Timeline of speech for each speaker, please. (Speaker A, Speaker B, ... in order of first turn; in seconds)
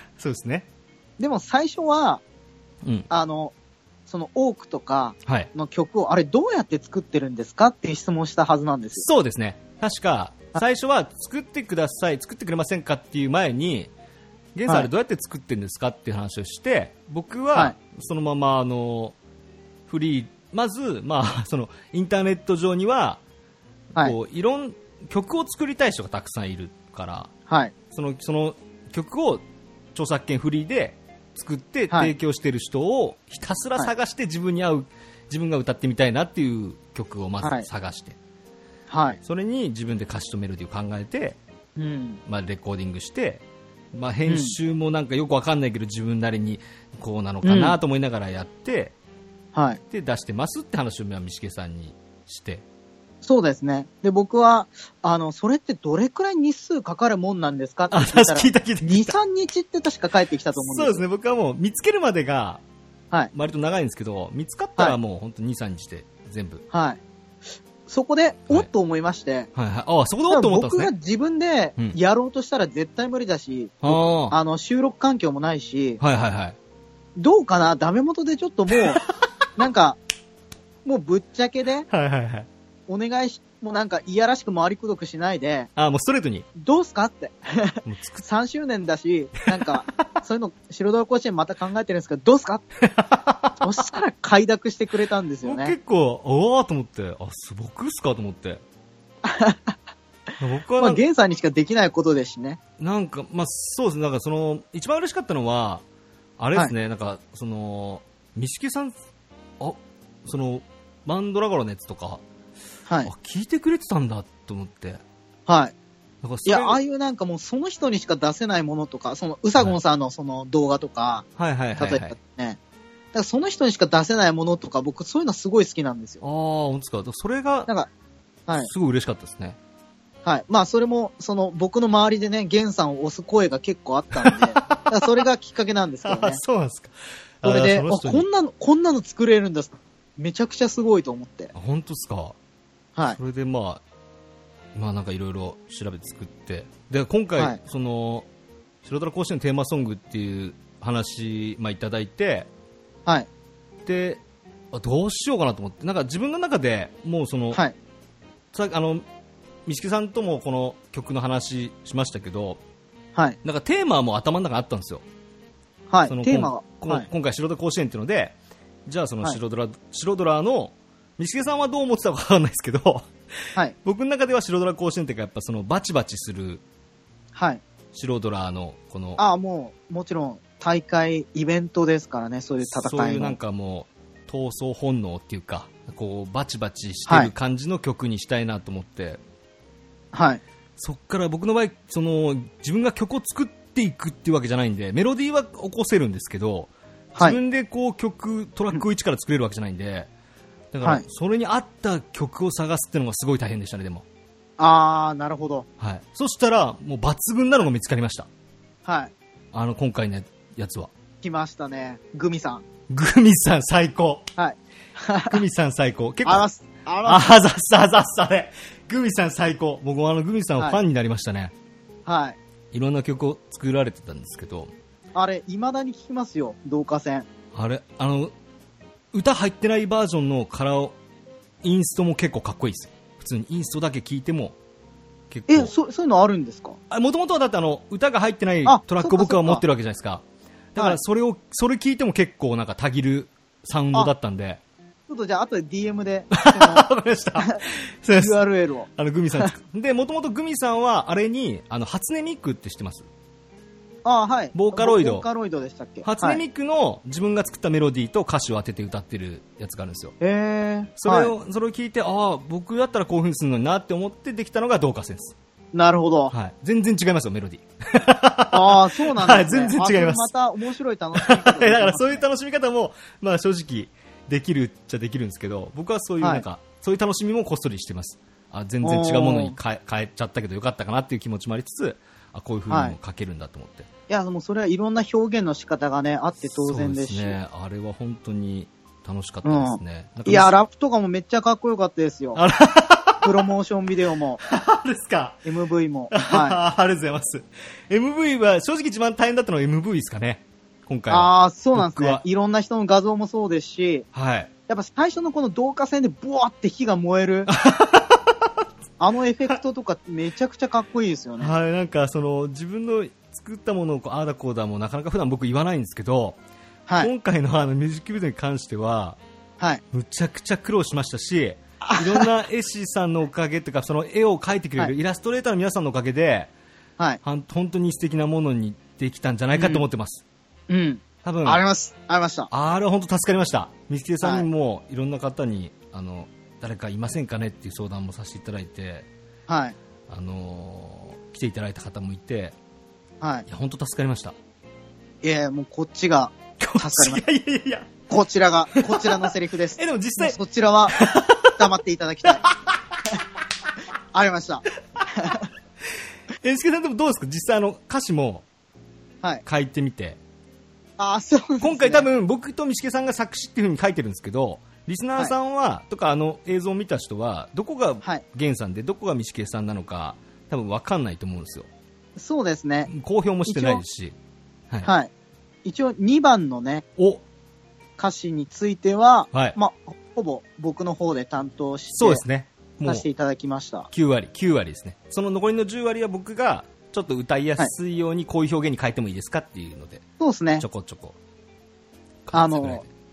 Speaker A: 0.2-0.7, 2.8-3.1, 5.2-5.5, 8.9-13.9, 14.6-19.1, 19.9-23.2, 23.9-27.3, 27.9-38.2, 39.2-41.4, 42.3-48.9, 49.9-52.6, 57.9-59.2, 60.5-62.6, 63.3-66.6, 69.5-70.9, 73.8-74.4, 76.0-76.6, 81.9-82.5, 85.8-86.5, 87.8-88.2, 92.8-93.7, 95.4-98.6, 100.4-101.0, 102.8-105.8, 106.4-109.0, 109.6-112.2, 113.0-115.0, 116.2-116.8, 121.4-122.2, 126.2-127.7, 128.6-129.6, 134.1-135.2, 136.1-138.2, 141.6-142.4, 143.1-143.8, 144.7-148.3, 148.8-152.5, 153.9-154.2, 154.7-157.6, 158.5-159.1, 159.7-162.6, 163.4-165.0, 166.1-173.1, 173.8-176.6, 177.9-179.2, 182.6-189.2, 190.8-200.1, 200.7-204.1, 205.8-208.3, 209.5-210.9, 212.9-214.3, 215.3-216.4, 217.1-221.5, 222.7-224.7, 227.5-228.3, 229.1-230.9, 231.6-234.6, 235.3-235.7, 236.9-240.2, 240.7-244.6, 246.3-248.4, 248.9-253.1, 254.5-255.2, 256.0-260.1, 261.0-265.4, 266.3-270.3, 271.1-283.9, 286.4-290.5, 292.3-293.4, 294.4-295.4, 296.1-302.2, 304.1-304.5, 307.5-308.6, 311.4-316.4, 317.0-319.2, 319.9-326.5, 327.2-330.2, 331.2-331.6, 332.5-339.1, 340.1-342.6, 343.5-344.4, 346.6-347.9, 348.7-350.4, 350.9-351.7, 352.3-353.0, 355.0-355.3, 356.4-358.4, 359.4-360.2, 361.6-371.7, 372.9-374.1, 377.0-377.2, 381.9-383.1, 383.9-390.0, 390.6-391.2, 392.2-392.9
Speaker B: 1.2-2.2, 3.1-3.5, 4.1-9.1, 27.5-27.7, 37.4-37.7, 38.9-39.2, 41.8-42.2, 44.2-44.6, 47.4-47.8, 49.5-49.8, 53.2-61.0, 66.7-67.0, 67.9-69.5, 70.3-76.0, 77.2-79.0, 79.6-80.0, 80.8-81.9, 82.9-85.7, 86.6-92.6, 93.6-95.8, 99.2-99.7, 100.8-102.6, 115.5-115.7, 116.5-122.6, 123.1-126.2, 130.2-136.4, 137.4-141.5, 165.9-167.1, 177.3-177.6, 179.2-183.4, 187.1-187.3, 190.1-190.4, 204.6-205.7, 208.8-209.1, 211.2-212.6, 214.4-215.4, 216.2-217.3, 222.1-222.4, 225.1-227.3, 235.5-236.8, 238.6-239.6, 245.1-246.9, 248.2-249.5, 254.1-256.4, 260.2-261.3, 265.7-266.3, 268.5-272.2, 278.8-279.6, 282.7-282.9, 284.1-287.4, 289.4-292.4, 293.2-294.4, 295.4-296.6, 301.1-304.1, 304.7-307.5, 309.0-311.5, 321.8-322.3, 329.6-329.8, 330.7-332.5, 334.2-334.5, 339.5-339.8, 343.2-343.4, 345.2-347.2, 348.1-352.4, 354.1-354.6, 355.1-355.4, 361.0-362.1, 372.2-372.9, 373.4-373.8, 374.8-375.1, 375.6-376.8, 378.0-382.2, 382.8-383.9, 390.2-390.6, 392.3-392.8